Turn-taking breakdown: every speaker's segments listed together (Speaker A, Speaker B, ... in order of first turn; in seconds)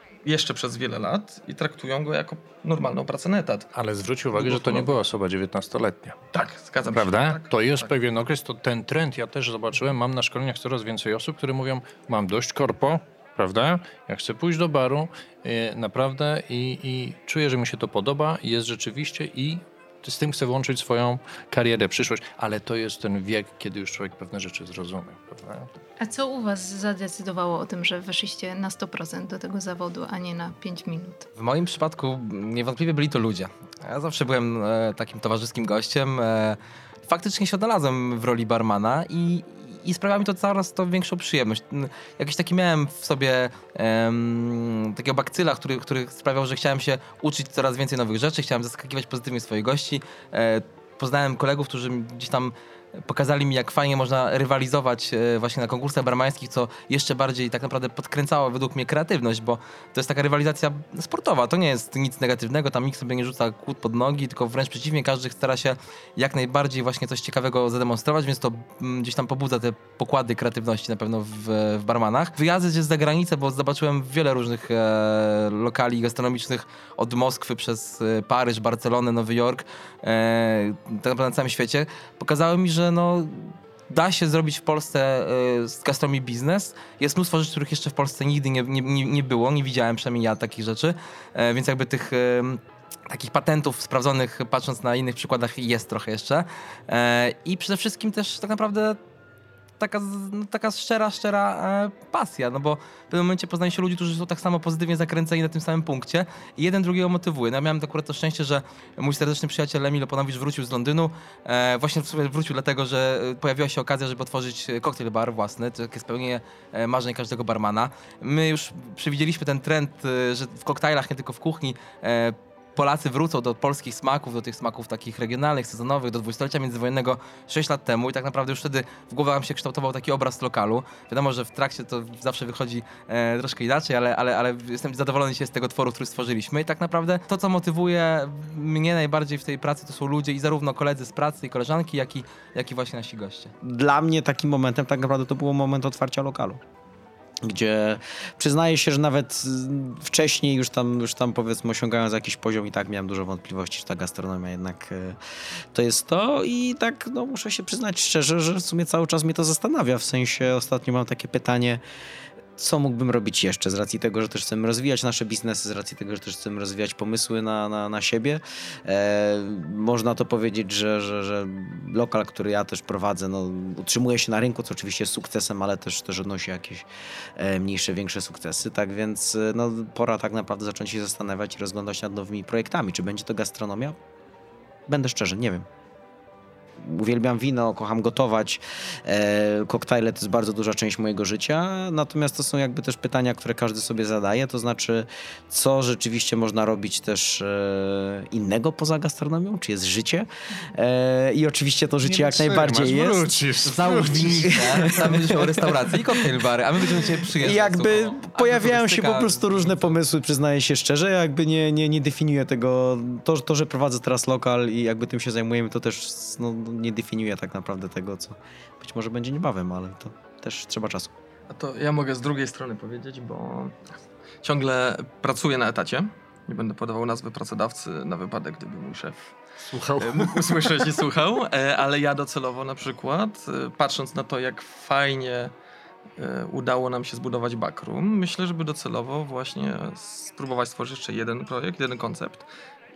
Speaker A: 0.2-3.7, 4.3-4.9, 6.3-7.9, 221.5-223.8, 224.4-229.3, 230.0-235.5, 236.2-242.5
Speaker B: 3.7-6.2, 6.9-25.7, 202.0-204.9, 229.7-230.9
Speaker C: 26.0-31.3
Speaker D: 31.4-99.0, 99.8-143.5, 203.6-210.0
Speaker E: 143.6-146.6, 147.4-155.2, 155.7-161.8, 162.6-176.9, 177.4-184.0, 184.9-185.7, 186.8-203.3, 203.9-205.9, 207.4-221.1